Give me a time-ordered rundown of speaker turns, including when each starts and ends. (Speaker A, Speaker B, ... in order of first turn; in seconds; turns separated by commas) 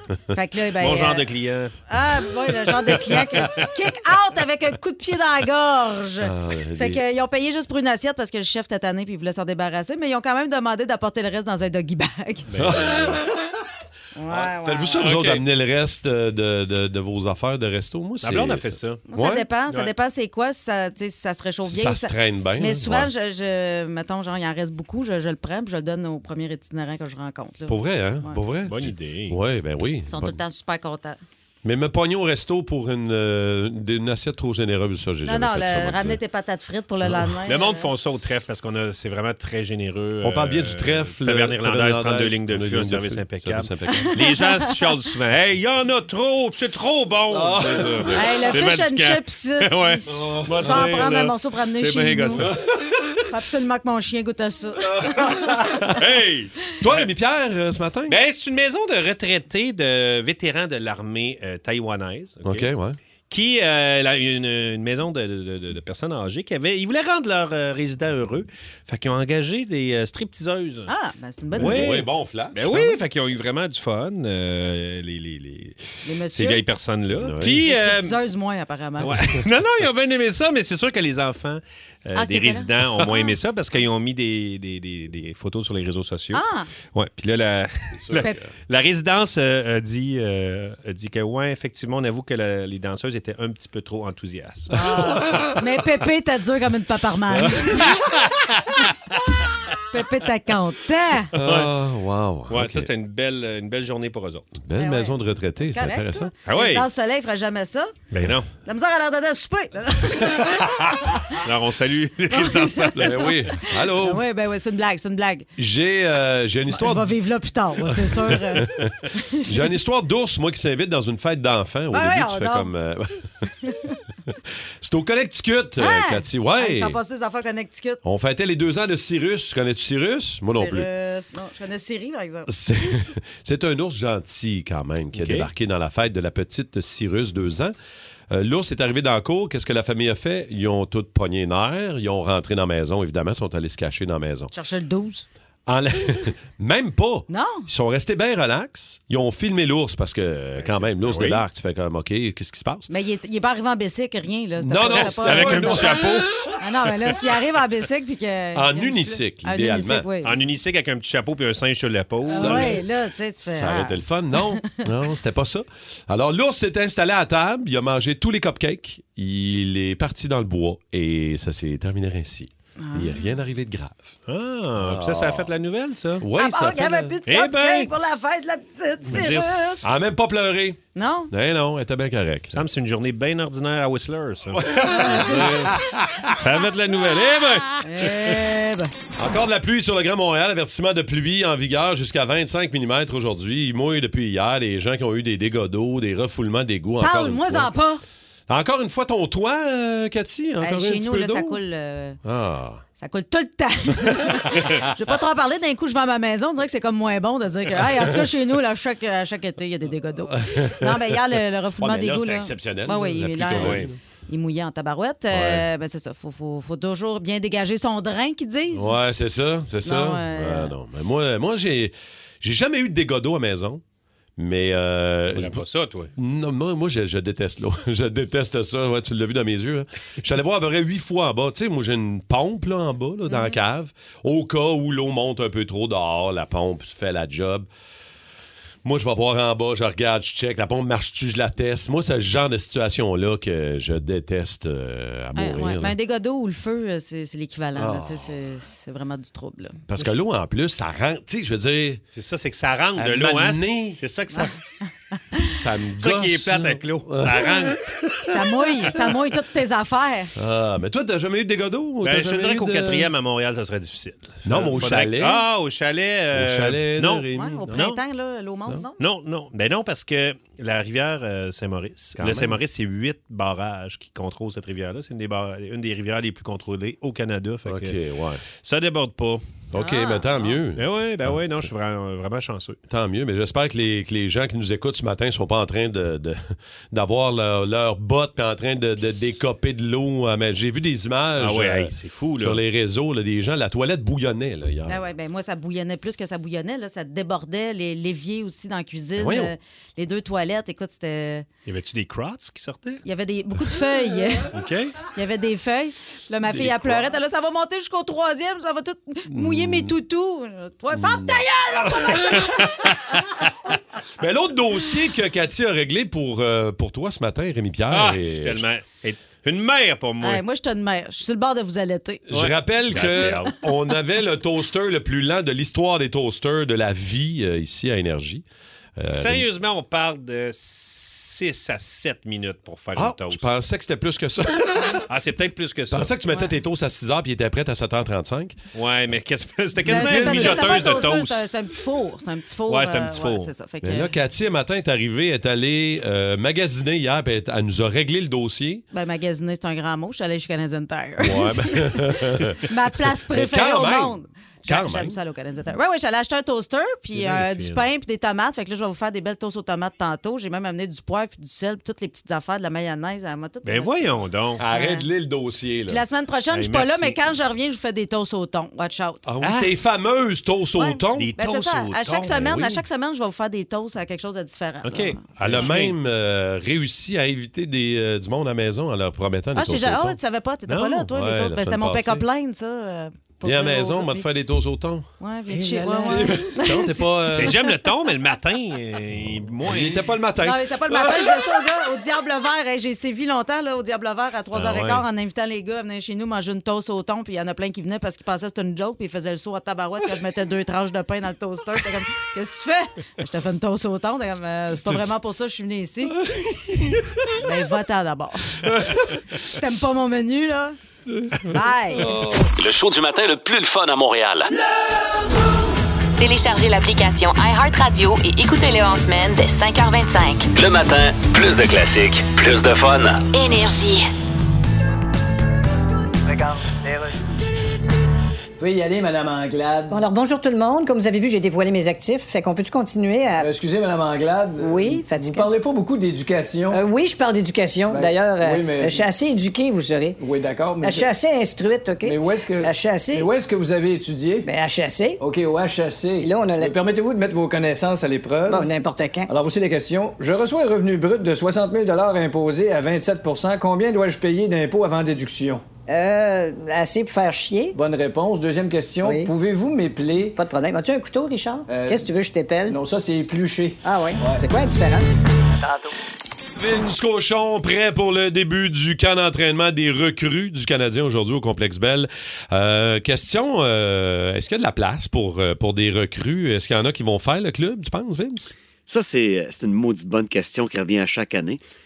Speaker A: 0.3-1.2, Speaker B: 0.8-1.8, Speaker A: 1.9-12.5, Speaker B: 2.9-3.6, Speaker C: 6.2-7.0, Speaker B: 12.5-13.2, Speaker C: 12.6-13.3, Speaker A: 14.2-15.1, Speaker C: 14.3-19.5, Speaker B: 15.0-15.4, Speaker B: 18.2-19.0, Speaker A: 19.1-28.4, Speaker C: 21.6-23.1, Speaker C: 27.7-30.4, Speaker B: 28.7-29.4, Speaker A: 30.1-31.2, Speaker C: 31.6-36.2, Speaker A: 35.2-37.9, Speaker C: 37.0-37.3, Speaker B: 37.5-52.5, Speaker C: 40.2-44.4, Speaker A: 43.9-44.4, Speaker C: 47.3-48.2, Speaker A: 48.1-50.0, Speaker C: 50.1-51.1, Speaker A: 50.6-52.5, Speaker C: 52.4-53.1, Speaker A: 53.3-55.1, Speaker C: 54.8-56.0, Speaker B: 55.9-56.8, Speaker C: 56.7-58.2, Speaker B: 58.1-62.7, Speaker C: 62.4-63.0, Speaker B: 63.3-70.9, Speaker A: 70.9-71.9, Speaker C: 71.6-72.7, Speaker B: 71.6-78.2, Speaker A: 76.0-76.6, Speaker C: 77.1-77.6, Speaker A: 77.6-79.1, Speaker B: 79.0-94.9, Speaker A: 82.2-83.3, Speaker A: 86.3-86.7, Speaker C: 87.9-88.5, Speaker A: 94.7-97.9, Speaker C: 94.9-95.6, Speaker C: 97.3-98.0, Speaker B: 97.9-98.4, Speaker A: 99.9-101.3, Speaker C: 101.3-102.9, Speaker B: 101.3-101.7, Speaker B: 102.5-104.5, Speaker C: 104.6-106.3, Speaker A: 104.8-107.9, Speaker B: 106.5-106.8, Speaker B: 108.1-108.5, Speaker A: 108.7-111.1, Speaker C: 110.3-111.2, Speaker B: 111.4-113.4, Speaker A: 112.3-115.5, Speaker C: 112.9-114.2, Speaker C: 115.6-117.1, Speaker A: 116.7-119.5, Speaker C: 117.8-123.5, Speaker A: 121.9-122.7, Speaker A: 123.6-124.0, Speaker C: 124.8-127.0, Speaker A: 125.8-128.0, Speaker C: 128.0-130.9, Speaker A: 130.5-132.5, Speaker C: 132.5-137.7, Speaker B: 135.1-135.5, Speaker C: 138.3-144.5, Speaker A: 144.5-145.3, Speaker C: 145.7-152.9, Speaker A: 147.3-147.7, Speaker B: 150.6-151.4, Speaker A: 152.9-156.0, Speaker C: 154.6-156.5, Speaker B: 154.9-156.3, Speaker A: 156.6-160.3, Speaker C: 158.6-160.1, Speaker B: 160.2-162.8, Speaker C: 162.3-162.9, Speaker A: 162.3-164.7, Speaker C: 163.4-174.1, Speaker A: 172.8-173.2, Speaker B: 174.3-176.3, Speaker C: 174.8-175.5, Speaker C: 176.2-177.2, Speaker A: 176.4-179.9, Speaker B: 177.3-178.2, Speaker B: 179.1-179.9, Speaker C: 179.8-182.6, Speaker A: 180.9-181.3, Speaker B: 182.5-185.8, Speaker C: 184.5-186.4, Speaker B: 186.3-188.1, Speaker A: 187.8-188.9, Speaker C: 189.2-197.7, Speaker A: 197.0-198.0, Speaker C: 198.5-201.6, Speaker A: 200.6-202.2, Speaker C: 202.2-202.8, Speaker A: 203.0-219.0, Speaker C: 210.3-211.2, Speaker C: 211.8-214.0, Speaker B: 213.5-213.9, Speaker C: 215.3-215.7, Speaker C: 218.7-223.8, Speaker A: 219.8-220.7, Speaker C: 224.4-225.6, Speaker B: 225.3-226.1, Speaker C: 226.2-237.7, Speaker A: 233.3-233.6, Speaker C: 238.8-245.9, Speaker A: 245.3-250.1, Speaker C: 247.8-248.4, Speaker C: 249.9-252.0, Speaker B: 252.1-254.6, Speaker C: 253.0-254.0, Speaker C: 255.4-258.3, Speaker B: 256.0-258.1, Speaker A: 258.3-260.3, Speaker C: 260.4-263.1, Speaker B: 262.0-268.0, Speaker C: 264.4-265.4, Speaker C: 266.3-267.7, Speaker A: 267.3-269.0, Speaker B: 269.0-278.0, Speaker C: 272.2-272.6, Speaker C: 277.6-278.4, Speaker B: 278.6-279.4, Speaker C: 279.7-281.7, Speaker A: 279.8-280.6, Speaker B: 280.8-282.8, Speaker C: 282.9-295.1, Speaker B: 291.4-292.6, Speaker A: 294.9-301.5, Speaker C: 299.2-299.5, Speaker B: 301.7-303.0, Speaker A: 303.0-304.5, Speaker B: 304.5-305.0, Speaker A: 305.1-312.4, Speaker C: 306.4-307.4, Speaker C: 309.3-309.9, Speaker C: 310.9-312.5, Speaker B: 312.2-313.1, Speaker C: 314.2-318.6, Speaker B: 317.9-320.4, Speaker A: 320.2-322.2, Speaker C: 322.3-328.4, Speaker B: 322.3-323.6, Speaker C: 329.0-329.5, Speaker B: 329.1-333.5, Speaker C: 332.9-335.1, Speaker B: 335.1-336.1, Speaker C: 335.9-338.6, Speaker B: 338.7-341.4, Speaker C: 339.8-341.1, Speaker A: 339.9-344.1, Speaker B: 342.7-343.5, Speaker C: 343.8-348.8, Speaker A: 348.9-364.1, Speaker C: 351.2-355.2, Speaker B: 357.1-357.8, Speaker B: 363.6-364.6, Speaker C: 364.6-366.0, Speaker A: 364.7-365.1, Speaker A: 365.9-369.2, Speaker B: 366.5-367.2, Speaker C: 369.2-371.3, Speaker B: 369.4-369.7, Speaker A: 370.8-375.7, Speaker B: 371.1-372.3, Speaker C: 372.2-372.8, Speaker B: 374.8-376.0, Speaker C: 375.4-380.2, Speaker A: 379.6-384.3, Speaker B: 380.7-381.1, Speaker C: 381.1-382.2, Speaker C: 383.4-385.1, Speaker A: 385.2-387.8, Speaker B: 385.5-386.4, Speaker C: 386.0-387.6, Speaker B: 387.4-390.1, Speaker C: 389.6-391.6, Speaker A: 390.4-406.2, Speaker B: 394.5-395.0, Speaker C: 406.3-407.4, Speaker A: 407.4-408.7, Speaker C: 408.7-409.0, Speaker A: 409.4-410.8, Speaker A: 411.4-412.2, Speaker C: 412.0-412.5, Speaker D: 412.6-414.5, Speaker E: 416.2-420.5, Speaker D: 420.5-423.2, Speaker E: 423.3-424.1, Speaker F: 428.6-430.0, Speaker G: 429.9-433.5, Speaker F: 433.4-436.8, Speaker G: 434.6-435.5, Speaker G: 436.7-440.2, Speaker F: 437.9-439.1, Speaker F: 440.2-441.1, Speaker G: 440.8-443.3, Speaker F: 442.0-444.5, Speaker G: 444.4-445.2, Speaker F: 445.2-448.7, Speaker G: 446.2-446.8, Speaker G: 448.5-449.3, Speaker F: 449.3-455.6, Speaker G: 455.9-457.8, Speaker F: 457.7-460.4, Speaker G: 459.0-459.3, Speaker G: 460.4-462.8, Speaker F: 461.7-462.1, Speaker F: 462.7-464.5, Speaker G: 463.8-465.1, Speaker C: 466.6-478.5, Speaker H: 478.9-481.6